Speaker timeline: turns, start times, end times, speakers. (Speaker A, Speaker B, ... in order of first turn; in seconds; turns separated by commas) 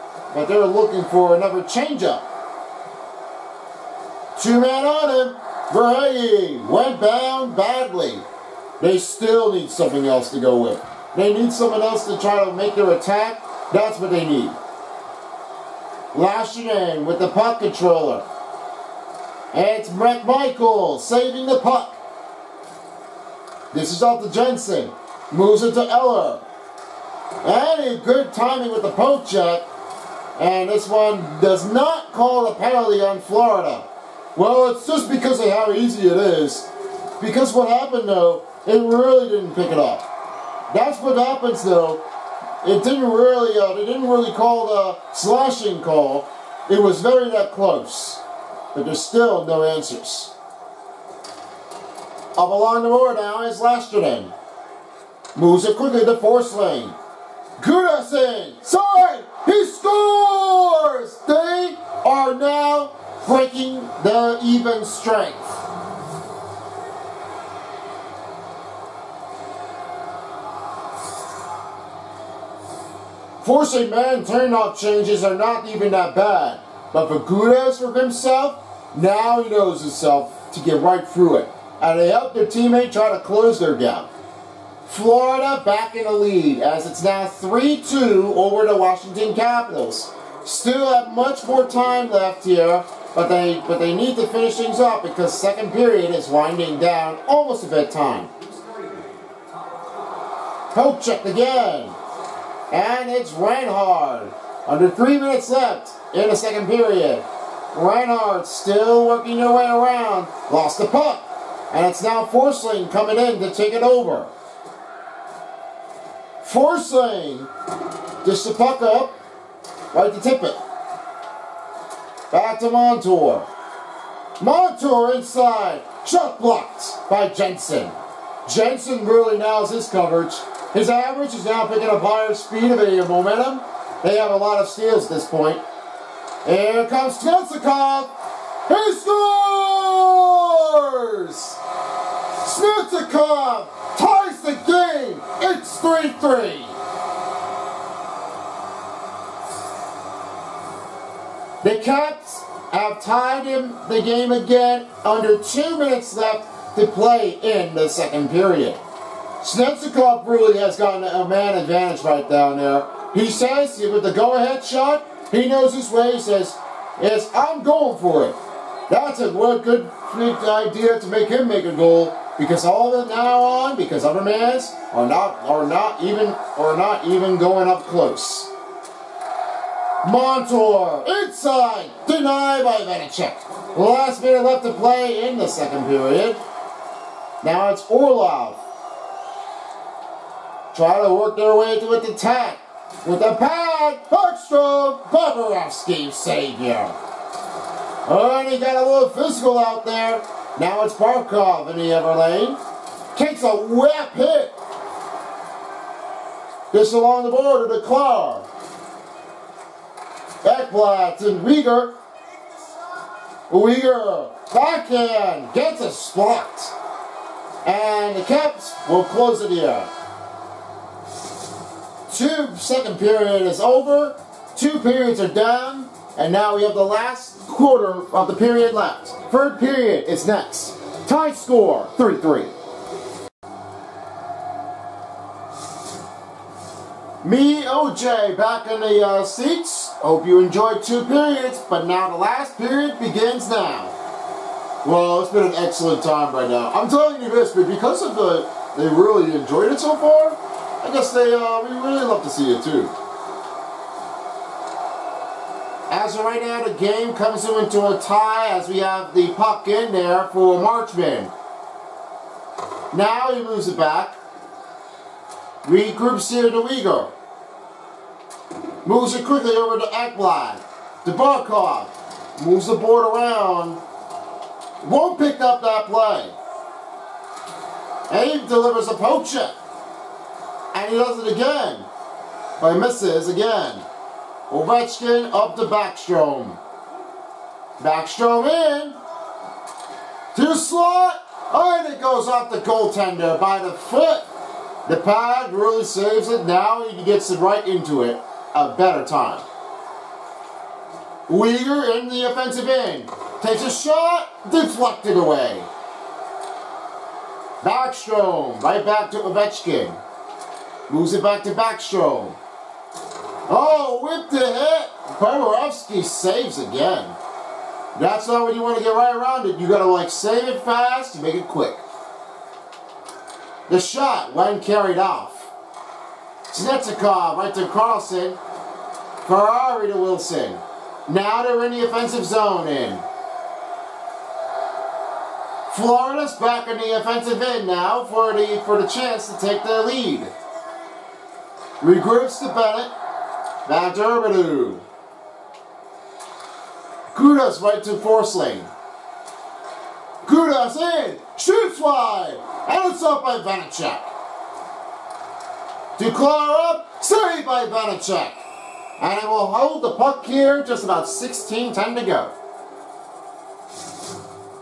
Speaker A: 0.3-2.2, Speaker A: 4.4-8.3, Speaker A: 8.8-14.6, Speaker A: 16.1-18.3, Speaker A: 19.5-22.0, Speaker A: 23.7-26.4, Speaker A: 27.4-29.6, Speaker A: 30.4-36.7, Speaker A: 37.2-40.0, Speaker A: 40.7-42.0, Speaker A: 42.6-48.2, Speaker A: 48.7-50.3, Speaker A: 52.4-54.3, Speaker A: 55.4-57.0, Speaker A: 57.6-65.6, Speaker A: 73.4-84.1, Speaker A: 84.8-98.3, Speaker A: 100.7-101.9, Speaker A: 102.7-114.3, Speaker A: 116.4-117.5, Speaker A: 118.2-119.2, Speaker A: 119.9-120.6, Speaker A: 122.3-123.5, Speaker A: 124.4-135.6, Speaker A: 136.4-138.1, Speaker A: 138.7-141.6, Speaker A: 142.4-146.8, Speaker A: 151.6-158.8, Speaker A: 159.4-168.4, Speaker A: 168.9-178.5, Speaker A: 180.0-186.4, Speaker A: 187.4-188.6, Speaker A: 190.7-197.0, Speaker A: 198.1-202.6, Speaker A: 203.2-204.6, Speaker A: 206.7-208.5, Speaker A: 210.4-211.9, Speaker A: 213.5-216.7, Speaker A: 217.6-219.9, Speaker A: 222.1-232.5, Speaker A: 237.2-243.9, Speaker A: 244.8-252.9, Speaker A: 255.9-261.3, Speaker A: 262.9-264.2, Speaker A: 265.6-267.1, Speaker A: 268.9-273.8, Speaker A: 274.8-276.4, Speaker A: 278.1-279.6, Speaker A: 280.7-281.9, Speaker A: 282.6-283.9, Speaker A: 284.5-286.6, Speaker A: 287.8-289.0, Speaker A: 290.3-294.2, Speaker A: 294.9-299.4, Speaker A: 301.3-305.7, Speaker A: 307.6-310.0, Speaker A: 310.9-312.4, Speaker A: 313.5-317.2, Speaker A: 317.9-321.8, Speaker A: 323.7-325.5, Speaker A: 326.5-328.4, Speaker A: 329.2-333.1, Speaker A: 335.7-340.3, Speaker A: 341.8-342.9, Speaker A: 343.6-344.8, Speaker A: 347.1-348.7, Speaker A: 350.2-354.1, Speaker A: 356.0-358.4, Speaker A: 359.0-362.3